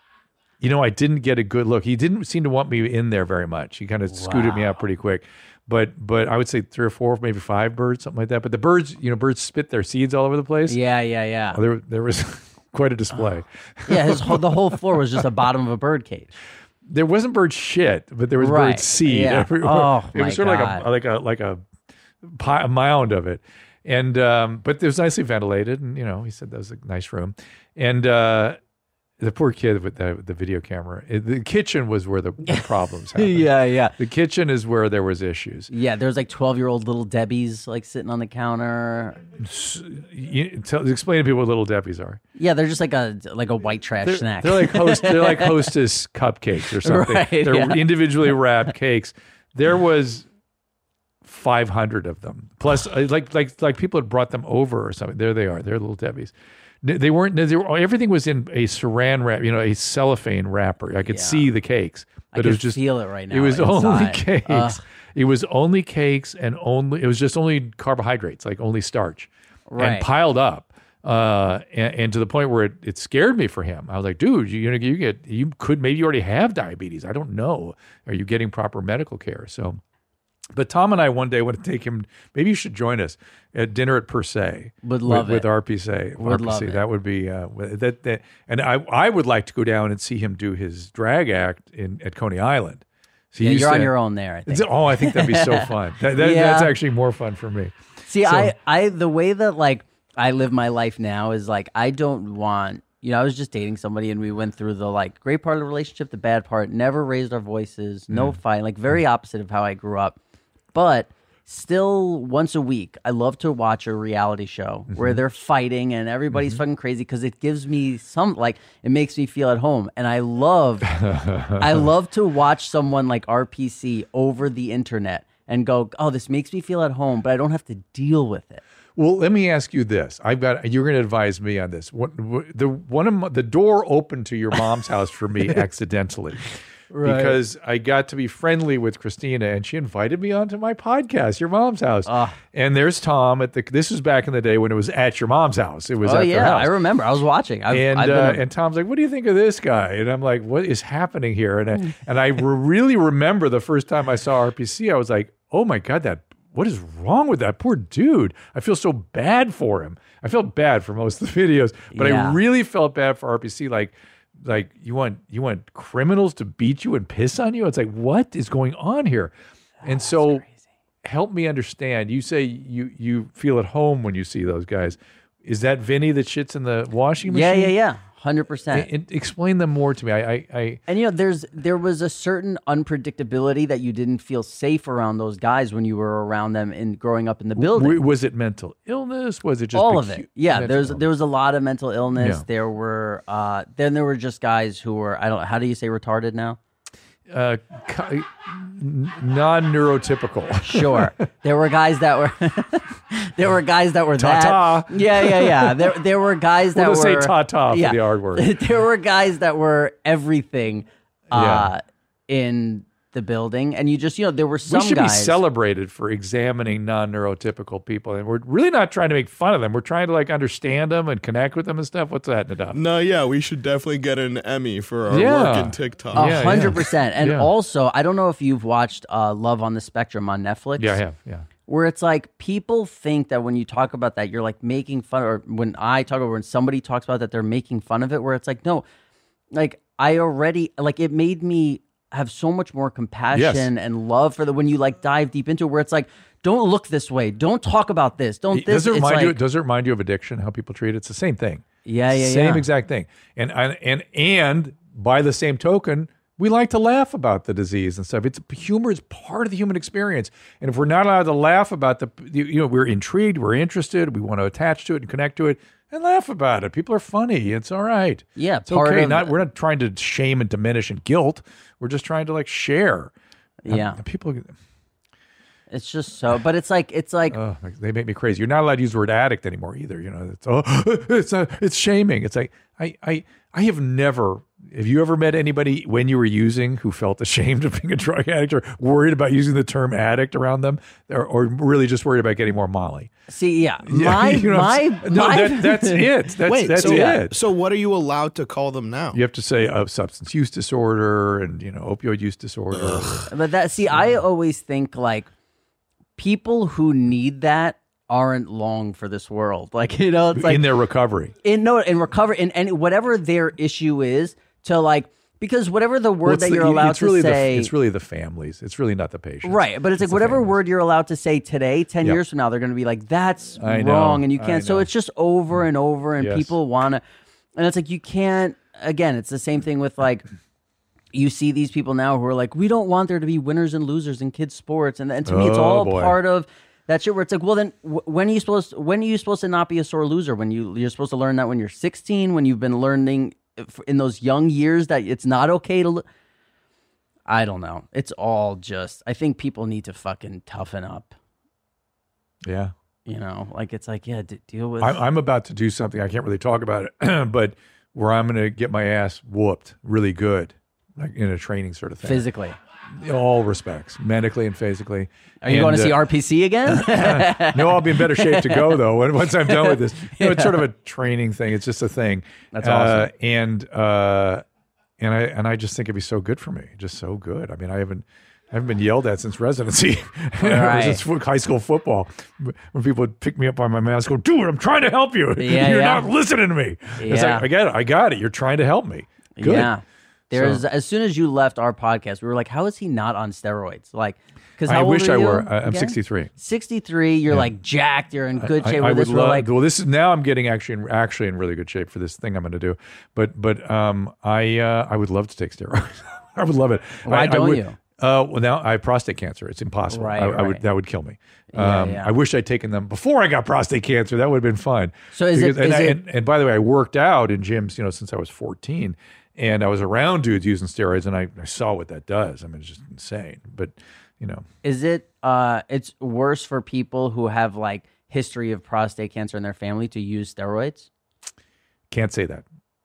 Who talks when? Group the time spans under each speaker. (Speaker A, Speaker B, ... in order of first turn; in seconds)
Speaker A: 0.6-10.8, 11.5-14.5, 16.9-21.6, 22.2-28.6, 29.2-35.7, 39.4-42.2, 44.0-50.3, 51.2-62.8, 63.3-79.8, 80.5-93.9, 94.5-97.7, 98.2-98.5, 108.1-108.4, 114.9-115.2, 116.3-116.6, 120.9-121.8, 129.0-146.7, 147.7-170.4, 171.0-177.7, 178.7-180.8, 187.6-191.1, 192.2-192.4, 197.3-201.1, 204.2-205.9, 206.8-208.5, 211.3-211.7, 214.7-222.8, 225.1-227.5, 230.8-231.5, 243.3-243.7, 248.5-273.1, 273.7-274.5, 277.3-293.1, 293.9-297.4, 299.1-303.3, 310.3-311.3, 316.2-320.6, 323.6-324.9, 326.2-326.5, 335.3-336.1, 352.4-352.7, 354.8-362.2, 363.0-366.0, 366.7-374.4, 375.0-389.7, 390.3-390.6, 394.6-396.3, 398.4-424.4, 431.9-432.4
Speaker B: 4.1-4.7, 10.7-11.6, 13.9-16.3, 18.4-20.9, 32.5-33.9, 35.7-39.2, 42.4-45.7, 46.8-48.1, 61.1-61.5, 62.3-64.8, 69.7-70.1, 84.8-85.5, 86.2-86.8, 93.4-96.7, 98.1-110.2, 110.7-121.0, 121.6-128.6, 136.9-137.4, 142.1-142.4, 146.0-148.4, 161.9-162.4, 169.8-170.5, 177.3-178.9, 180.9-188.0, 189.7-196.6, 200.7-215.4, 226.1-231.0, 231.7-238.8, 239.5-249.4, 251.8-252.7, 268.4-269.3, 273.6-274.0, 275.7-277.4, 293.3-296.2, 296.8-297.2, 303.3-305.3, 306.2-310.7, 311.4-317.7, 319.4-327.0, 327.6-330.3, 331.1-346.0, 347.3-351.1, 353.1-355.0, 362.0-362.6, 365.4-368.8, 369.3-370.7, 372.5-373.1, 380.4-381.0, 385.4-386.1, 387.0-387.5, 389.4-399.5, 407.1-407.8, 409.9-410.6, 411.5-412.1, 415.1-416.0, 424.6-430.9
Speaker C: 222.7-226.8, 296.4-299.2, 302.7-303.3